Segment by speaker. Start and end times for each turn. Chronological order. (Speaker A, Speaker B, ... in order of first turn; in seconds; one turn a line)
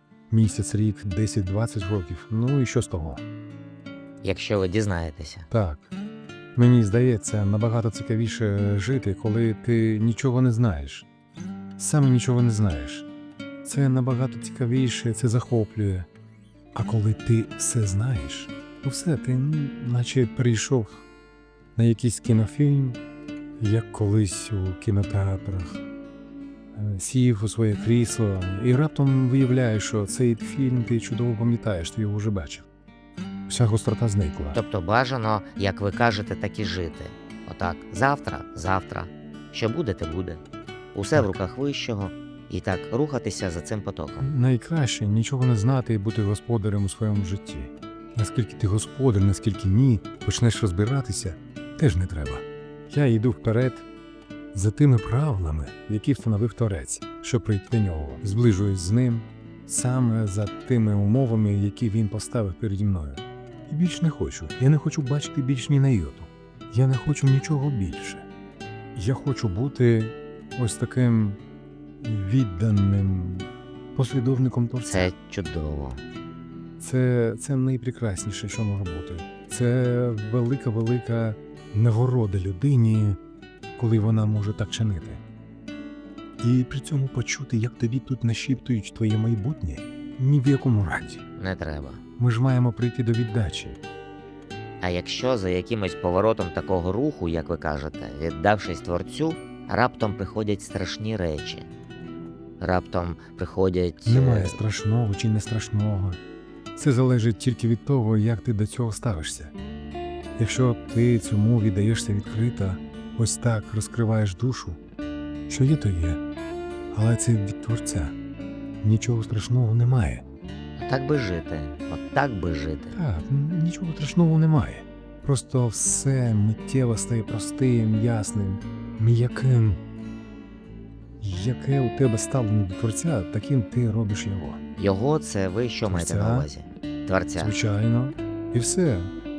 Speaker A: 0.3-3.2
Speaker B: 4.2-5.5
Speaker A: 5.5-5.9
Speaker A: 6.5-11.1
Speaker A: 11.8-13.1
Speaker A: 13.6-16.1
Speaker A: 16.8-21.1
Speaker A: 21.8-23.0
Speaker A: 23.6-25.9
Speaker A: 26.7-32.7
Speaker A: 33.5-34.6
Speaker B: 34.5-40.4
Speaker B: 40.9-44.3
Speaker A: 44.2-53.9
Speaker A: 54.5-68.3
Speaker A: 69.0-71.4
Speaker A: 72.0-75.1
Speaker B: 74.9-76.0
Speaker A: 76.8-83.2
Speaker A: 83.8-85.2
Speaker A: 86.4-91.2
Speaker B: 91.4-92.0
Speaker A: 92.2-93.8
Speaker B: 94.8-101.7
Speaker B: 102.6-104.6
Speaker A: 104.0-106.2
Speaker A: 106.8-109.5
Speaker A: 110.4-114.8
Speaker A: 115.5-116.2
Speaker A: 116.9-118.2
Speaker A: 118.8-120.2
Speaker B: 120.8-123.0
Speaker A: 122.9-129.8
Speaker A: 131.2-134.6
Speaker B: 134.8-137.6
Speaker A: 135.8-136.5
Speaker A: 137.4-139.1